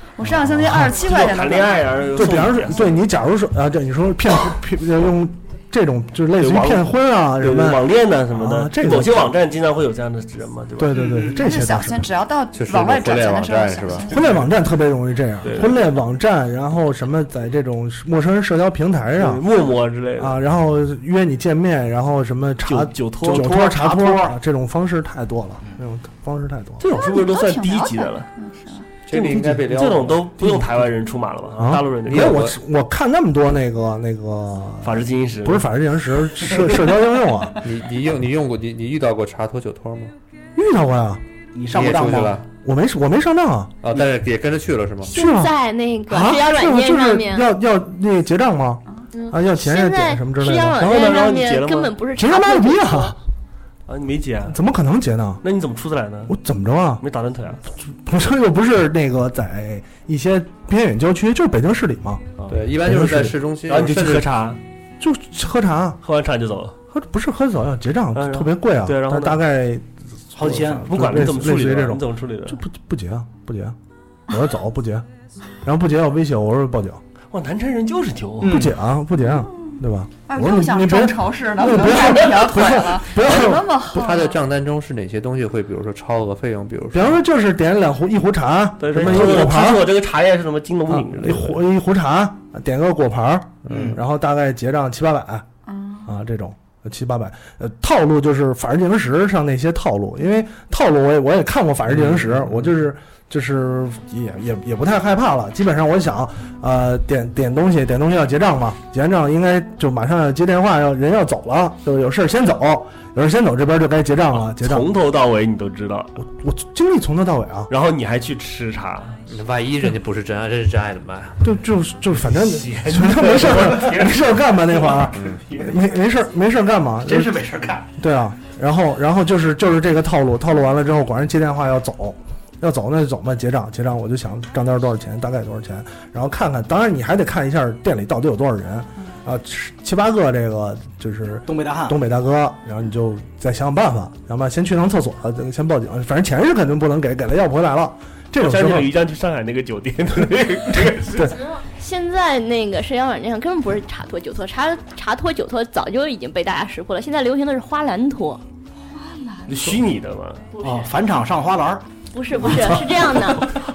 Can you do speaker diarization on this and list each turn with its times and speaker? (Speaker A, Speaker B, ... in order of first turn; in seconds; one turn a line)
Speaker A: 0.2-2.4
Speaker B: 0.3-1.0
Speaker C: 0.9-3.0
Speaker B: 2.1-9.3
Speaker C: 6.4-11.0
Speaker B: 10.8-12.1
Speaker D: 10.9-11.5
Speaker A: 11.3-14.4
Speaker E: 12.5-14.1
Speaker B: 14.1-19.4
Speaker C: 15.4-15.8
Speaker C: 19.1-20.4
Speaker B: 20.2-26.8
Speaker C: 22.6-24.3
Speaker C: 26.8-28.3
Speaker A: 26.9-28.9
Speaker E: 29.1-30.3
Speaker C: 29.1-32.4
Speaker B: 30.4-30.7
Speaker B: 31.6-37.6
Speaker E: 32.1-32.6
Speaker C: 34.8-35.7
Speaker E: 37.6-40.1
Speaker B: 40.5-41.2
Speaker D: 41.5-42.4
Speaker E: 41.7-42.5
Speaker B: 42.6-43.7
Speaker E: 43.8-45.1
Speaker B: 45.1-51.1
Speaker F: 45.1-47.5
Speaker F: 49.1-53.1
Speaker C: 50.7-52.0
Speaker B: 52.1-53.2
Speaker C: 53.9-54.6
Speaker B: 54.5-55.4
Speaker C: 55.4-56.3
Speaker B: 56.3-57.0
Speaker C: 57.0-57.6
Speaker B: 57.8-62.3
Speaker C: 62.4-62.7
Speaker E: 62.5-64.3
Speaker B: 62.8-63.4
Speaker C: 63.7-64.6
Speaker B: 65.0-66.0
Speaker C: 66.0-66.7
Speaker B: 66.9-73.8
Speaker C: 68.1-69.4
Speaker D: 70.3-71.1
Speaker C: 70.9-72.6
Speaker B: 74.3-75.0
Speaker B: 75.6-77.0
Speaker C: 77.3-78.5
Speaker D: 78.4-78.8
Speaker B: 78.4-83.7
Speaker A: 79.3-79.7
Speaker A: 80.2-84.4
Speaker E: 83.9-87.2
Speaker B: 86.9-89.9
Speaker C: 88.8-91.6
Speaker B: 90.9-95.4
Speaker D: 93.7-94.0
Speaker A: 95.7-96.1
Speaker B: 96.0-114.9
Speaker C: 114.3-116.2
Speaker B: 116.2-117.7
Speaker C: 117.7-119.2
Speaker E: 119.3-121.5
Speaker B: 121.4-127.4
Speaker C: 122.2-125.8
Speaker E: 125.1-125.4
Speaker D: 127.0-127.9
Speaker B: 128.0-148.9
Speaker D: 141.4-142.0
Speaker C: 148.4-151.3
Speaker F: 151.4-158.4
Speaker A: 158.9-159.5
Speaker C: 159.5-160.5
Speaker D: 160.6-161.8
Speaker F: 162.1-163.5
Speaker C: 162.5-162.7